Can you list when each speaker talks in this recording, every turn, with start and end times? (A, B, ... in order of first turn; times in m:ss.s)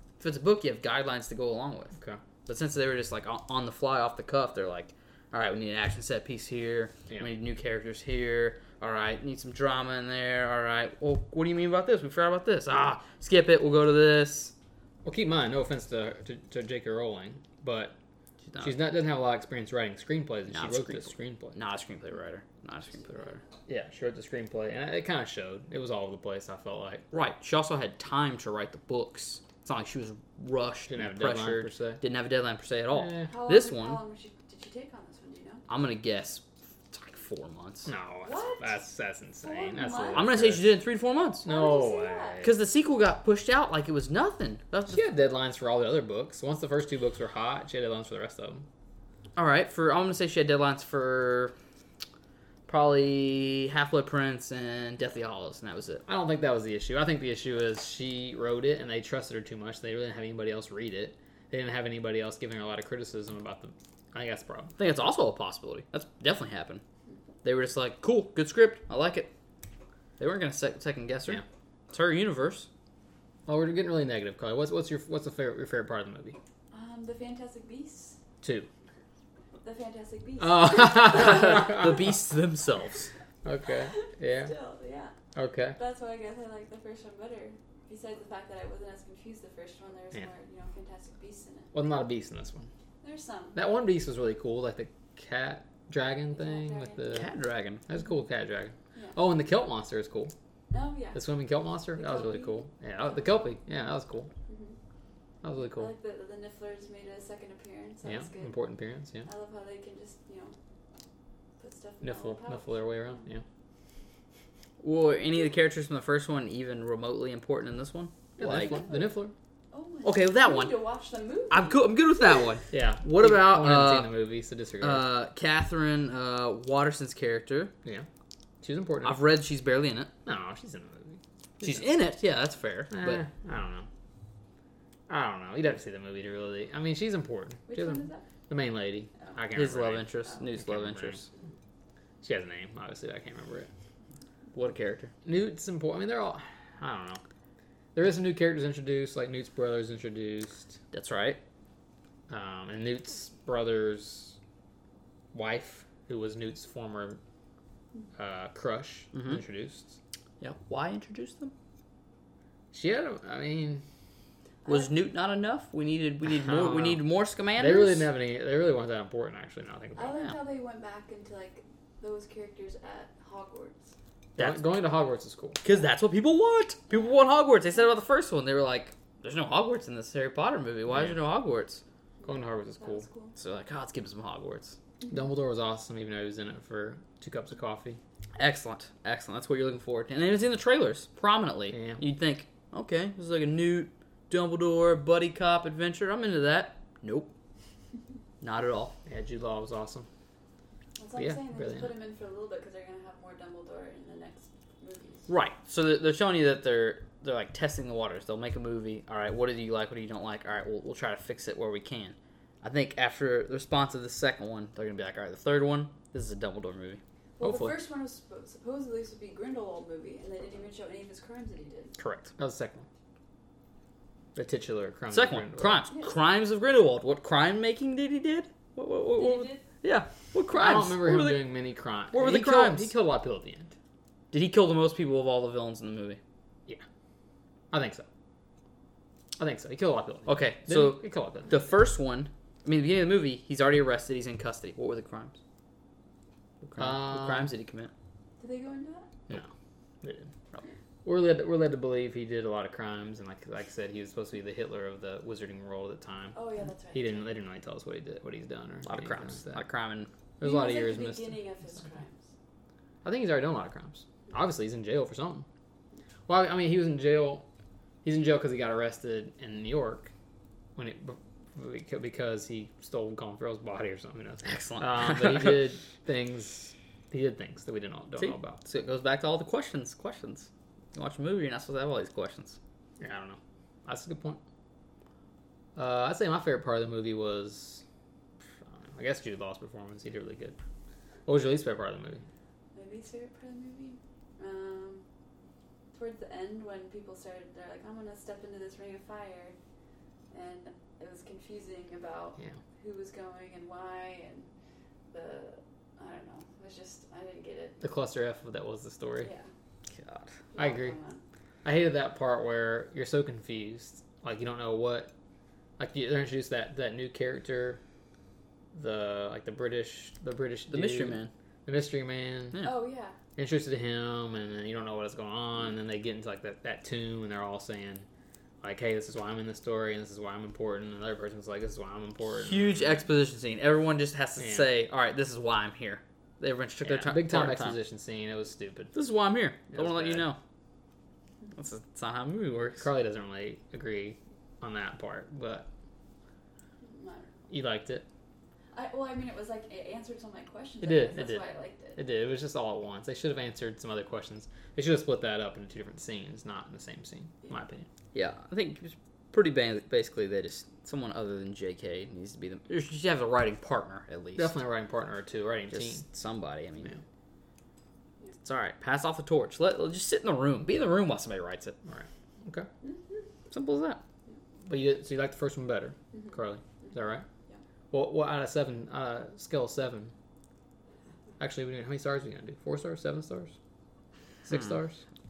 0:00.2-0:01.9 A
0:02.4-0:14.5 A
0:15.0-0:18.0 B
0:18.5-0:18.8 A
0:18.6-0:21.6 B
0:20.5-0:23.4 A
0:23.7-0:27.0 B
0:27.1-0:34.0 A
0:30.9-0:32.0 B
0:32.9-0:33.3 B
0:33.3-0:35.6 C
0:35.7-0:37.9 A
0:37.8-0:40.7 B
0:38.2-0:38.8 C
0:39.4-0:40.3 C
0:40.1-0:41.4 A
0:41.4-0:42.4 C
0:41.4-0:42.5 B
0:42.4-0:45.0 A
0:44.9-0:48.6 B
0:49.4-0:51.5 A
0:52.7-0:56.0 A
0:56.0-1:04.8 B
1:04.8-1:06.8 A
1:07.4-1:09.3 A
1:10.2-1:12.7 A
1:13.4-1:16.4 B
1:16.7-1:18.2 C
1:18.4-1:18.7 B
1:19.6-1:21.6 C
1:20.4-1:22.2 B
1:20.9-1:23.1 A
1:23.4-1:24.5 B
1:23.9-1:25.1 C
1:25.3-1:25.8 B
1:25.8-1:31.7 C
1:31.7-1:32.7 B
1:33.0-1:33.6 C
1:33.5-1:37.3 B
1:36.3-1:37.3 C
1:37.1-1:37.8 A
1:37.9-1:40.3 B
1:40.7-1:41.2 C
1:41.1-1:44.3 B
1:42.0-1:42.6 C
1:44.5-1:44.8 C
1:45.4-1:45.9 B
1:45.6-1:48.6 C
1:48.0-1:49.3 B
1:49.2-1:50.6 C
1:51.6-1:53.2 C
1:52.0-1:53.4 B
1:54.8-1:58.9 A
1:58.4-1:59.3 B
1:58.4-1:59.2 C
1:59.7-2:01.9 C
2:00.0-2:00.8 A
2:01.5-2:04.1 A
2:02.7-2:05.0 B
2:04.8-2:07.7 A
2:08.6-2:09.2 B
2:09.0-2:10.1 A
2:10.2-2:11.9 B
2:11.6-2:13.2 A
2:12.9-2:13.9 B
2:15.1-2:21.2 B
2:17.7-2:18.3 C
2:19.5-2:21.2 A
2:22.2-2:23.7 B
2:24.5-2:25.1 A
2:25.2-2:27.2 B
2:27.9-2:30.8 B
2:30.9-2:31.4 A
2:32.3-2:34.4 B
2:35.3-2:37.2 B
2:38.2-2:40.0 B
2:39.1-2:39.4 A
2:40.4-2:41.5 A
2:42.7-2:43.8 B
2:44.6-2:44.9 C
2:44.6-2:48.1 A
2:46.2-2:47.0 B
2:47.6-2:50.2 B
2:50.0-2:53.9 C
2:54.4-2:54.6 A
2:54.4-2:55.6 B
2:55.6-3:01.8 A
3:00.9-3:01.2 B
3:02.2-3:03.3 C
3:02.2-3:03.0 B
3:03.4-3:04.8 A
3:05.1-3:08.0 B
3:08.4-3:17.3 A
3:11.7-3:12.0 B
3:18.4-3:19.0 A
3:19.0-3:20.1 B
3:21.0-3:25.3 C
3:21.2-3:21.9 B
3:25.3-3:37.0 A
3:37.4-3:42.0 C
3:37.4-3:37.8 B
3:42.0-3:42.3 A
3:42.4-3:42.8 B
3:44.3-3:45.8 B
3:45.1-3:51.5 A
3:49.2-3:49.6 C
3:50.5-3:53.7 B
3:52.1-3:52.9 A
3:54.3-3:56.2 A
3:57.7-3:58.0 B
3:59.4-4:01.6 B
4:00.3-4:05.4 A
4:06.6-4:07.9 A
4:06.7-4:07.5 B
4:08.4-4:09.1 C
4:10.0-4:10.3 B
4:11.0-4:16.4 B
4:16.3-4:17.3 C
4:16.9-4:19.6 B
4:18.8-4:20.1 A
4:20.4-4:21.4 B
4:20.4-4:22.3 C
4:23.0-4:25.4 B
4:26.3-4:27.4 B
4:28.0-4:30.1 B
4:30.8-4:38.6 B
4:34.4-4:35.6 A
4:38.2-4:42.6 A
4:43.0-4:44.4 B
4:45.8-4:47.8 B
4:48.6-4:50.6 B
4:51.2-4:52.2 B
4:52.7-4:55.0 C
4:55.9-4:59.6 C
5:00.3-5:04.5 C
5:05.1-5:07.8 C
5:07.8-5:09.3 B
5:09.2-5:09.5 C
5:09.9-5:10.3 A
5:10.5-5:11.2 C
5:10.6-5:11.0 B
5:11.6-5:15.1 B
5:15.8-5:17.8 B
5:18.7-5:22.6 B
5:20.7-5:21.3 A
5:22.6-5:23.2 C
5:23.4-5:28.0 B
5:28.6-5:33.1 B
5:32.3-5:37.8 A
5:34.4-5:34.7 B
5:36.8-5:38.9 B
5:38.9-5:40.4 A
5:39.7-5:40.3 B
5:41.5-5:42.9 A
5:42.8-5:45.7 B
5:46.8-5:47.4 C
5:47.5-5:48.0 B
5:48.7-5:52.0 C
5:50.8-5:51.4 B
5:52.0-5:57.9 B
5:58.1-6:04.5 A
6:04.4-6:06.0 B
6:05.7-6:06.9 A
6:08.4-6:11.8 A
6:11.8-6:12.7 B
6:12.8-6:13.2 C
6:13.5-6:14.0 A
6:14.6-6:17.2 B
6:16.1-6:17.6 C
6:17.9-6:20.1 B
6:21.4-6:23.6 B
6:24.4-6:25.0 B